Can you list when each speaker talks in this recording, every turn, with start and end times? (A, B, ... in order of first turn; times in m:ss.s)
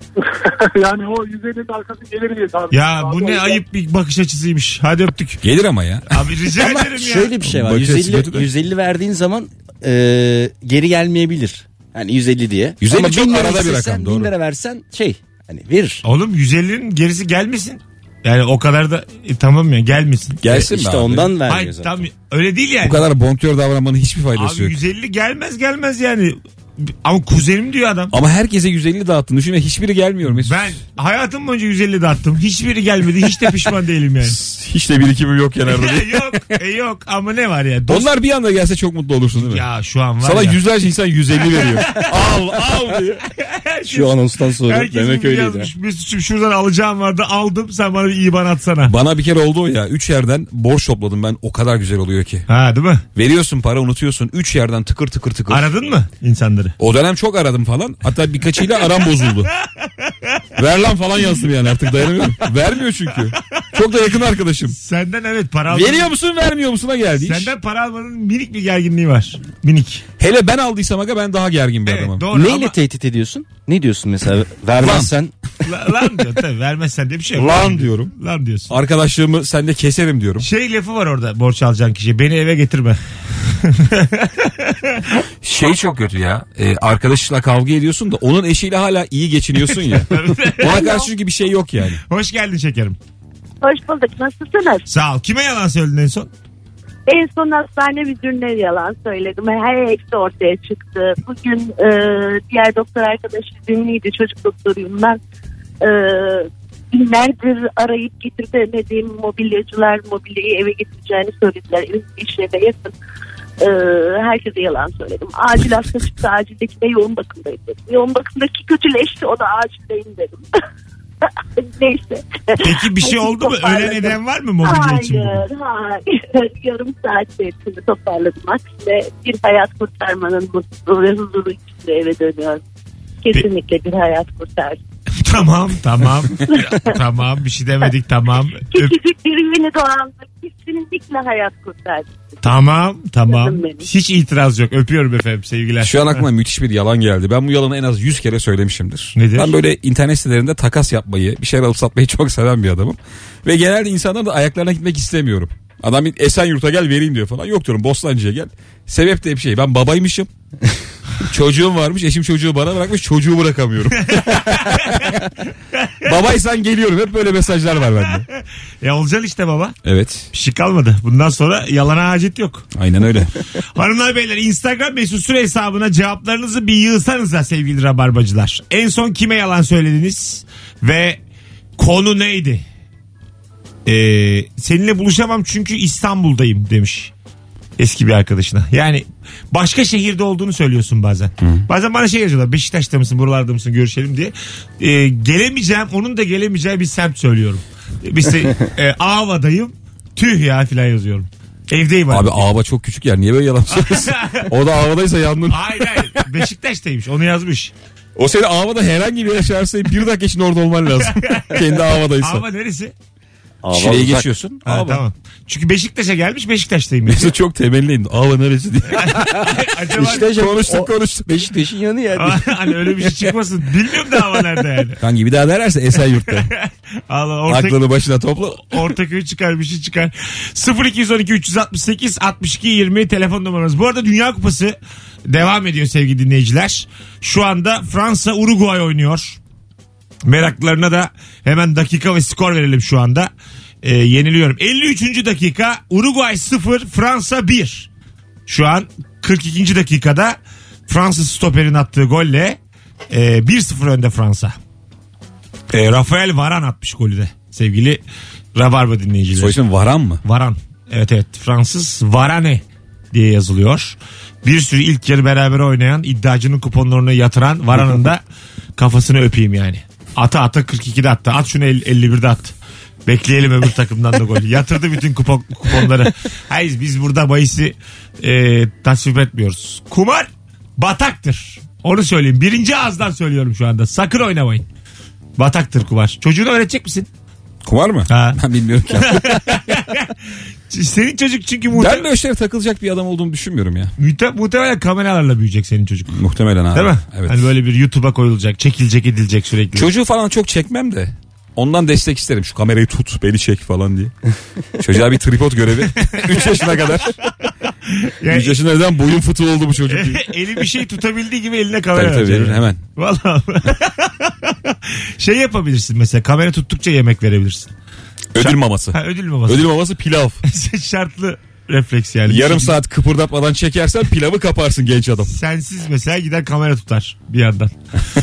0:00.2-0:03.6 A
0:02.7-0:05.4 B
0:05.4-0:06.2 C
0:06.1-0:07.4 B
0:06.6-0:16.0 D
0:07.4-0:08.5 C
0:12.8-0:14.3 C
0:16.0-0:20.6 B
0:20.4-0:21.3 C
0:20.4-0:22.0 D
0:21.5-0:23.1 B
0:22.8-0:24.8 C
0:24.3-0:28.1 B
0:28.1-0:30.7 C
0:30.3-0:34.4 B
0:34.2-0:36.4 C
0:35.7-0:38.1 B
0:37.9-0:39.6 C
0:39.4-0:40.6 B
0:40.2-0:43.2 C
0:41.5-0:42.3 B
0:43.3-0:48.9 B
0:43.9-0:45.7 D
0:48.8-0:52.4 C
0:52.5-0:53.0 B
0:53.1-0:55.7 C
0:55.5-0:56.7 B
0:56.8-0:59.5 C
1:00.0-1:00.4 B
1:00.6-1:04.8 C
1:04.7-1:06.1 B
1:05.7-1:07.5 C
1:07.2-1:10.0 B
1:10.2-1:12.3 C
1:11.8-1:12.8 B
1:12.3-1:15.3 D
1:14.8-1:15.1 C
1:15.6-1:18.7 B
1:17.4-1:18.1 C
1:18.7-1:20.5 C
1:20.4-1:25.0 B
1:25.4-1:32.0 C
1:29.6-1:30.9 B
1:30.6-1:31.1 E
1:32.1-1:33.0 B
1:33.6-1:34.8 E
1:34.9-1:36.3 B
1:37.1-1:45.2 E
1:45.8-1:52.9 E
1:53.6-2:00.4 E
2:01.6-2:12.6 E
2:02.6-2:05.4 B
2:13.2-2:14.8 E
2:15.2-2:18.9 B
2:16.5-2:16.8 E
2:18.7-2:22.1 E
2:22.4-2:26.2 B
2:23.3-2:23.9 E
2:25.8-2:40.3 C
2:29.2-2:29.5 B
2:41.2-2:45.2 C
2:44.0-2:45.2 B
2:45.7-2:46.0 B
2:46.0-2:48.2 C
2:48.8-2:49.8 B
2:49.8-2:50.3 C
2:50.3-2:52.7 B
2:52.7-2:53.3 C
2:53.6-3:01.2 B
3:01.8-3:02.6 B
3:03.8-3:07.1 B
3:07.8-3:22.4 B
3:11.4-3:11.6 C
3:22.1-3:26.2 C
3:23.7-3:24.5 B
3:25.5-3:27.7 B
3:28.2-3:32.4 C
3:31.1-3:32.9 B
3:33.6-3:34.3 D
3:33.7-3:35.0 C
3:34.6-3:37.3 B
3:37.1-3:41.4 C
3:38.9-3:40.4 B
3:39.9-3:42.4 D
3:42.2-3:45.0 B
3:45.0-3:46.5 C
3:46.2-3:47.8 B
3:47.5-3:48.8 C
3:48.7-3:54.8 B
3:55.3-3:59.4 B
4:00.2-4:03.3 B
4:03.8-4:07.9 B
4:08.5-4:10.4 B
4:10.9-4:12.6 B
4:13.1-4:14.6 B
4:15.7-4:18.0 B
4:18.5-4:19.6 B
4:19.4-4:20.2 C
4:20.2-4:28.2 B
4:28.8-4:32.5 B
4:33.1-4:44.6 B
4:45.4-4:47.1 B
4:47.6-4:49.6 C
4:48.1-4:48.4 B
4:49.0-4:50.1 B
4:50.7-4:52.1 B
4:51.7-4:53.9 C
4:54.0-4:56.2 B
4:56.1-4:57.5 C
4:56.7-4:59.9 B
4:59.7-5:04.1 C
5:04.8-5:07.2 C
5:06.0-5:06.9 B
5:07.4-5:08.6 B
5:08.3-5:10.3 C
5:09.9-5:17.7 B
5:11.9-5:12.8 C
5:18.3-5:20.4 C
5:18.4-5:19.7 B
5:20.4-5:22.8 B
5:22.3-5:25.3 C
5:25.2-5:27.7 B